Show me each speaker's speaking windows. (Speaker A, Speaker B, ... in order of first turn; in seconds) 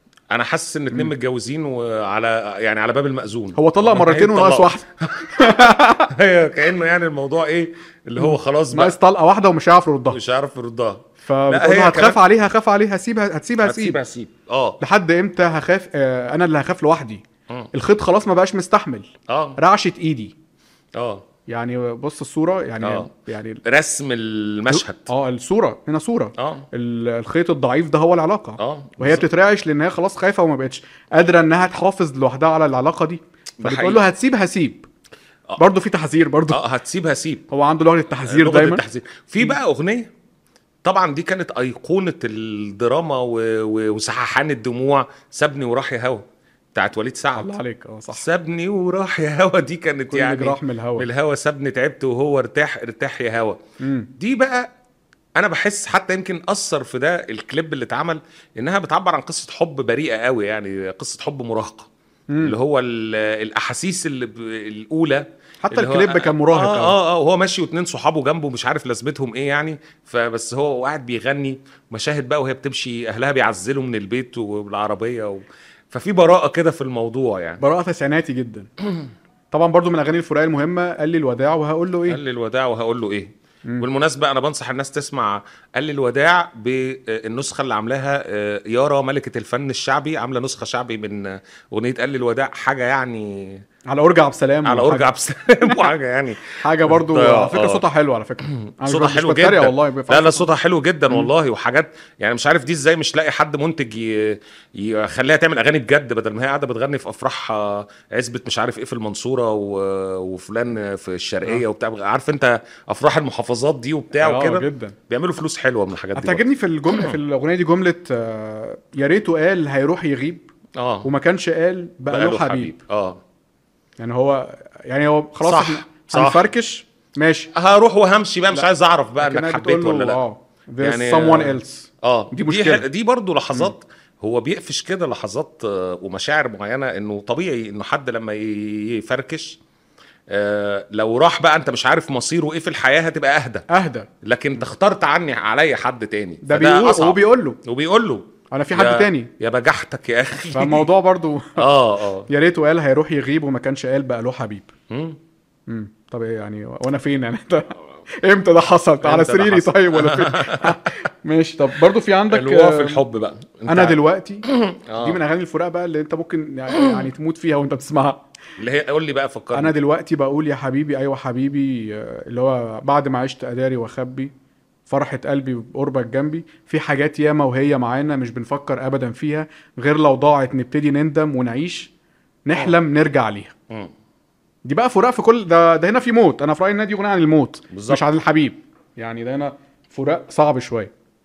Speaker A: 0.3-8.9, 10.1-12.2, 13.6-14.8, 19.3-19.6, 20.9-21.2, 22.8-23.1, 23.6-25.1, 26.4-26.6, 28.6-29.2, 33.6-34.0, 36.5-37.5, 38.2-40.1, 40.8-46.2, 46.7-47.6, 48.1-53.6, 54.2-54.6, 55.4-61.9, 62.4-77.6, 82.1-93.6, 94.6-97.8, 98.4-117.2, 120.8-121.1, 122.1-123.2, 125.4-126.5, 127.5-130.2, 130.8-139.6, 140.3-143.7, 144.2-150.9, 151.6-152.3, 154.9-155.2, 159.0-160.9, 162.3-165.2, 168.6-169.8, 187.7-188.0
Speaker B: 3.5-6.1, 8.2-10.2, 11.2-14.0, 14.8-20.3, 21.5-23.6, 24.7-34.8, 35.6-36.6, 37.5-38.8, 47.4-48.2, 50.1-51.1, 53.8-54.1, 62.3-62.5, 65.7-67.0, 77.6-78.7, 79.5-82.2, 93.9-95.1, 96.6-100.5, 114.2-115.0, 116.1-120.5, 121.0-122.7, 124.0-127.5, 129.2-132.8, 143.7-144.1, 146.4-147.6, 148.5-149.3, 150.5-151.7, 152.3-154.7, 155.7-163.0, 163.7-164.4, 165.0-168.2, 169.5-174.3, 174.9-181.9, 182.4-183.5, 184.6-190.9